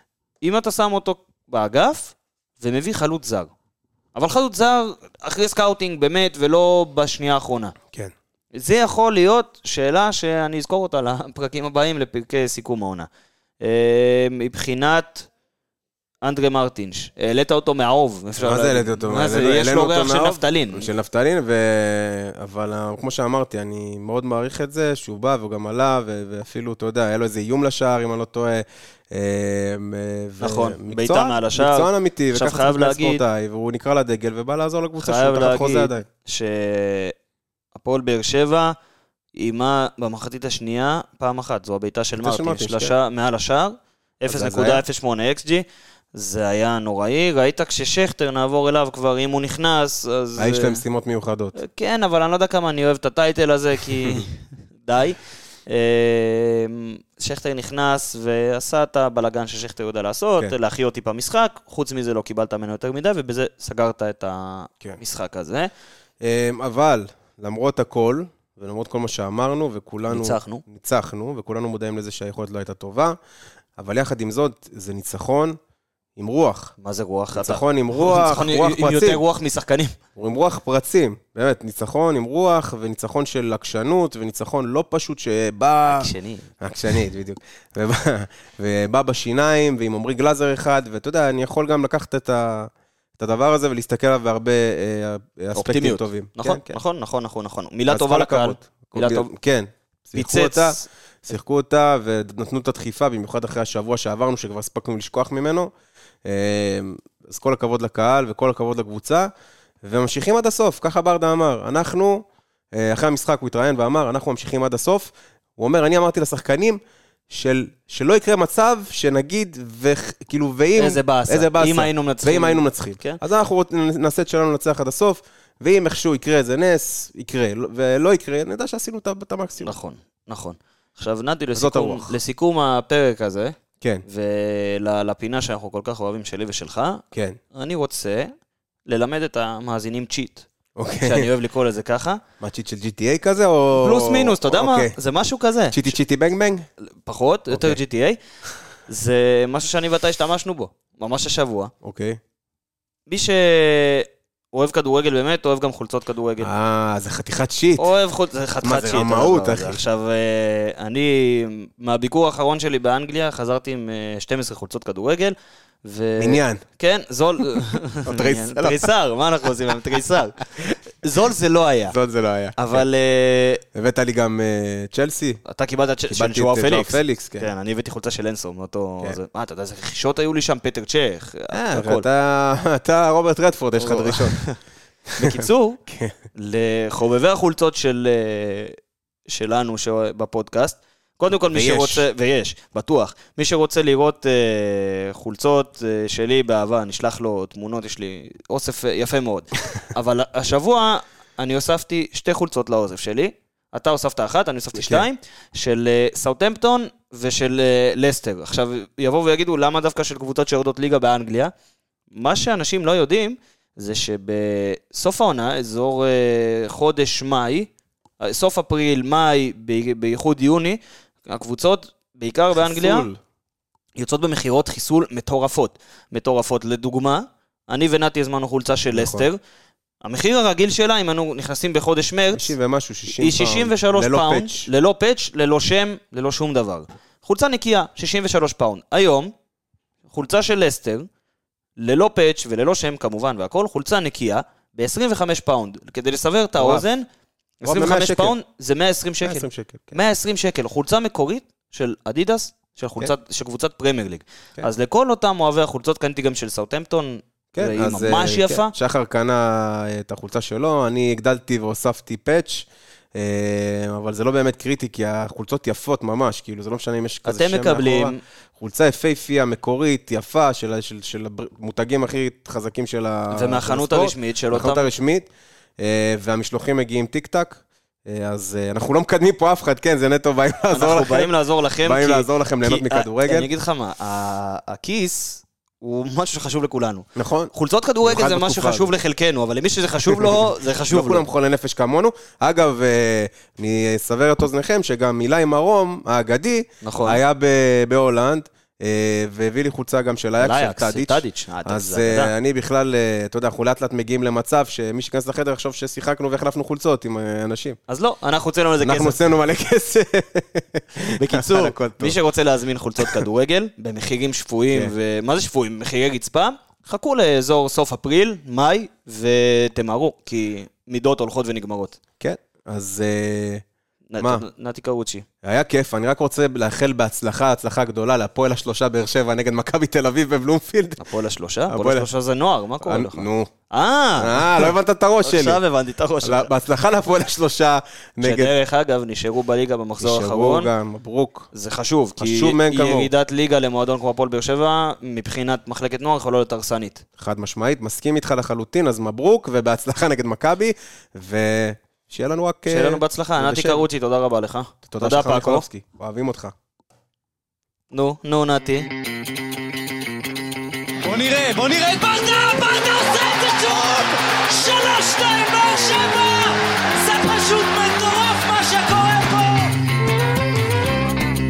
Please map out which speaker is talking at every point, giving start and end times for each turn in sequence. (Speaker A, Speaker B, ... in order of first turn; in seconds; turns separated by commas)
Speaker A: 0.4-3.5, Speaker A: 4.1-7.7, Speaker A: 8.5-13.1, Speaker A: 13.6-15.3, Speaker A: 16.2-20.9, Speaker B: 18.4-36.1, Speaker A: 30.4-33.2, Speaker A: 35.0-37.1, Speaker A: 37.7-38.7, Speaker A: 39.3-50.8, Speaker B: 42.2-42.9, Speaker B: 44.3-44.8, Speaker B: 50.4-51.6, Speaker A: 51.5-65.7, Speaker B: 66.2-73.2, Speaker A: 70.1-70.6, Speaker B: 73.8-75.6, Speaker B: 76.2-76.7, Speaker A: 76.8-79.9, Speaker B: 77.3-79.2, Speaker B: 80.2-86.1, Speaker A: 85.9-87.0, Speaker B: 86.6-96.8, Speaker A: 95.5-99.3, Speaker B: 97.9-105.7, Speaker A: 100.1-100.8, Speaker B: 106.2-109.3, Speaker B: 109.8-129.7, Speaker A: 120.8-123.2, Speaker A: 129.6-133.5, Speaker B: 131.5-132.1, Speaker A: 134.1-137.0, Speaker B: 137.1-137.4, Speaker A: 137.5-138.3, Speaker A: 138.9-140.4, Speaker B: 140.8-141.3, Speaker A: 141.0-142.2, Speaker B: 142.4-144.9, Speaker A: 143.7-145.8, Speaker B: 145.7-146.7, Speaker A: 146.8-148.2, Speaker B: 147.5-147.8, Speaker A: 148.9-151.7, Speaker B: 151.8-152.2, Speaker A: 153.1-156.5, Speaker B: 156.4-157.9, Speaker A: 157.8-171.9, Speaker B: 158.6-159.8, Speaker B: 166.2-166.6, Speaker B: 168.0-168.9, Speaker B: 171.9-172.8, Speaker A: 172.6-173.6, Speaker B: 173.7-175.4, Speaker A: 175.4-182.1, Speaker B: 176.1-177.5, Speaker B: 181.5-184.4, Speaker A: 183.8-184.6, Speaker B: 185.1-186.2, Speaker A: 185.2-185.8, Speaker A: 186.3-211.5, Speaker B: 191.4-192.0, Speaker B: 204.7-205.0, Speaker A: 212.1-217.7, Speaker A: 218.2-223.1, Speaker B: 222.6-223.2, Speaker A: 224.0-229.4, Speaker B: 228.9-229.3, Speaker A: 230.0-232.5, Speaker B: 232.3-234.7, Speaker A: 233.1-239.3, Speaker A: 240.1-241.1, Speaker A: 241.8-247.1, Speaker B: 246.6-246.8, Speaker A: 247.6-258.7, Speaker B: 247.6-248.3, Speaker B: 249.2-250.0, Speaker B: 257.5-281.3, Speaker A: 267.2-268.2, Speaker A: 273.3-274.9, Speaker A: 280.7-291.2, Speaker B: 281.8-283.5, Speaker B: 287.1-288.9, Speaker B: 290.1-307.8, Speaker A: 296.8-297.2, Speaker A: 300.4-302.3, Speaker A: 307.9-309.1, Speaker B: 308.8-312.2, Speaker A: 311.2-322.0, Speaker B: 322.2-323.6, Speaker A: 324.1-325.2, Speaker B: 324.2-324.4, Speaker B: 325.4-331.0, Speaker A: 331.0-336.5, Speaker B: 331.7-332.1, Speaker B: 332.8-333.5, Speaker B: 334.2-335.6, Speaker B: 336.2-338.5, Speaker A: 338.2-340.7, Speaker B: 340.0-341.5, Speaker A: 341.5-347.0, Speaker B: 342.2-343.1, Speaker B: 347.2-353.8, Speaker A: 352.7-355.6, Speaker B: 354.8-356.5, Speaker A: 357.9-358.9, Speaker C: 361.0-369.8